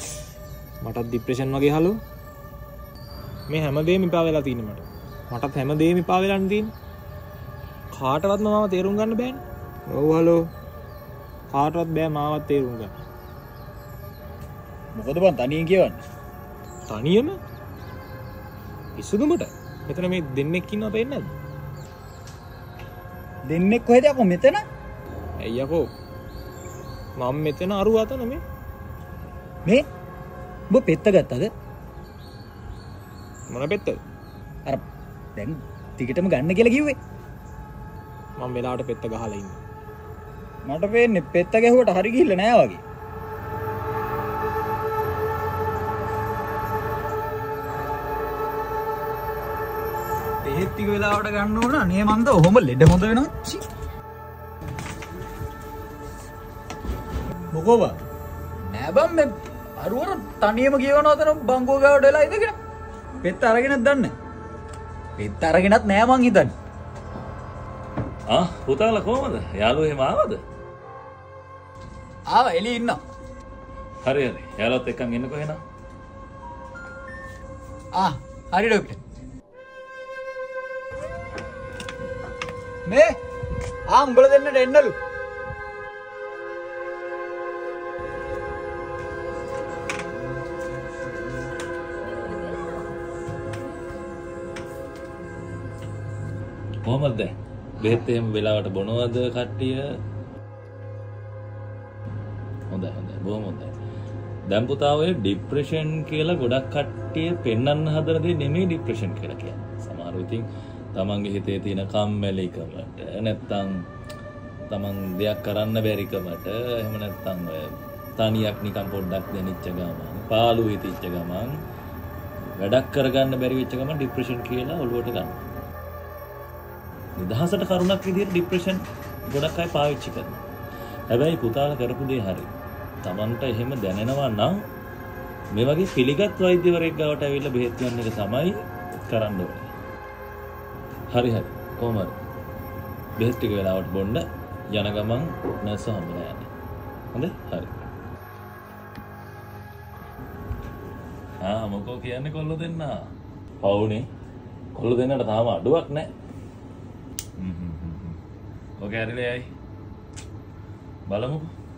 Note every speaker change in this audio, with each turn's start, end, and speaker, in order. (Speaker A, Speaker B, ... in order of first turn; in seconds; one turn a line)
Speaker A: 0.8-2.0
Speaker A: 3.5-6.7
Speaker A: 7.9-10.4
Speaker A: 11.5-12.9
Speaker B: 14.9-16.0
Speaker A: 16.9-17.4
Speaker A: 18.9-21.3
Speaker B: 23.5-24.6
Speaker A: 25.4-25.9
Speaker A: 27.2-28.4
Speaker B: 30.7-31.5
Speaker A: 33.5-34.0
Speaker B: 35.4-37.0
Speaker A: 38.4-39.6
Speaker B: 40.6-42.8
Speaker B: 50.4-53.6
Speaker B: 57.5-58.0
Speaker B: 58.7-62.6
Speaker B: 63.2-64.1
Speaker B: 65.2-66.5
Speaker C: 68.3-70.4
Speaker B: 72.3-73.0
Speaker C: 74.0-75.6
Speaker B: 77.9-79.0
Speaker B: 82.8-83.2
Speaker B: 83.9-84.9
Speaker C: 96.8-99.8
Speaker C: 102.7-103.7
Speaker C: 104.5-113.8
Speaker C: 114.7-121.5
Speaker C: 122.6-125.5
Speaker C: 127.2-130.4
Speaker C: 131.1-132.5
Speaker C: 133.0-134.6
Speaker C: 135.5-139.7
Speaker C: 141.1-142.2
Speaker C: 143.2-146.5
Speaker C: 147.1-147.9
Speaker C: 151.4-152.9
Speaker C: 153.6-154.0
Speaker C: 154.7-156.1
Speaker C: 157.4-158.2
Speaker C: 158.8-159.5
Speaker C: 161.1-161.5